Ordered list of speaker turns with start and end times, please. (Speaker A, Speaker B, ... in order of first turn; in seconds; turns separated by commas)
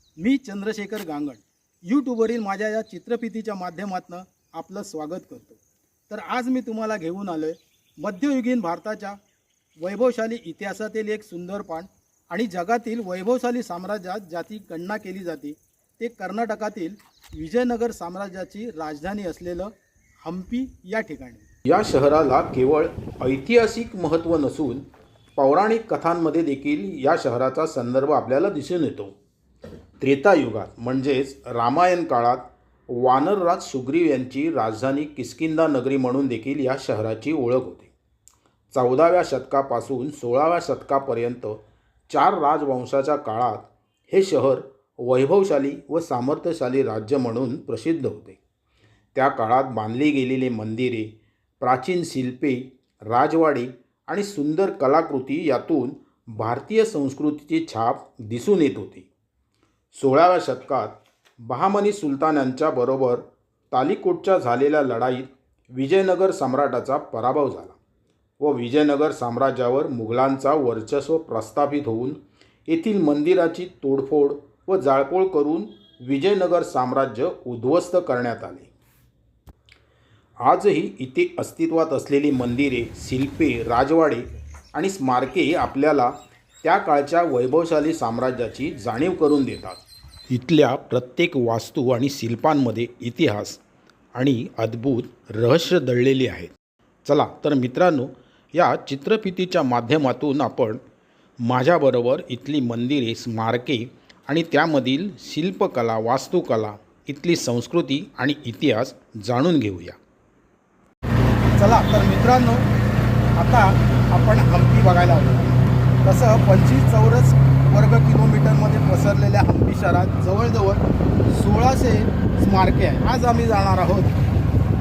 Speaker A: 0.2-1.1, Speaker B: 0.2-1.4, Speaker B: 1.9-5.6, Speaker A: 1.9-3.4, Speaker A: 4.0-5.3, Speaker A: 6.1-7.5, Speaker B: 6.3-7.5, Speaker A: 8.0-9.0, Speaker B: 8.1-9.2, Speaker A: 9.8-11.7, Speaker B: 9.9-11.9, Speaker A: 12.3-16.8, Speaker B: 12.4-15.6, Speaker B: 16.1-19.7, Speaker A: 17.4-19.6, Speaker A: 20.2-20.7, Speaker B: 20.4-29.2, Speaker B: 30.0-37.9, Speaker B: 38.7-48.4, Speaker B: 49.1-59.1, Speaker B: 59.9-67.8, Speaker B: 68.4-78.7, Speaker B: 80.4-93.6, Speaker B: 94.1-100.8, Speaker B: 101.5-110.0, Speaker B: 111.6-112.6, Speaker A: 111.7-112.5, Speaker A: 113.4-115.5, Speaker B: 113.5-115.5, Speaker B: 116.1-120.8, Speaker A: 116.1-117.1, Speaker A: 117.7-120.6, Speaker A: 121.4-124.1, Speaker B: 121.5-123.7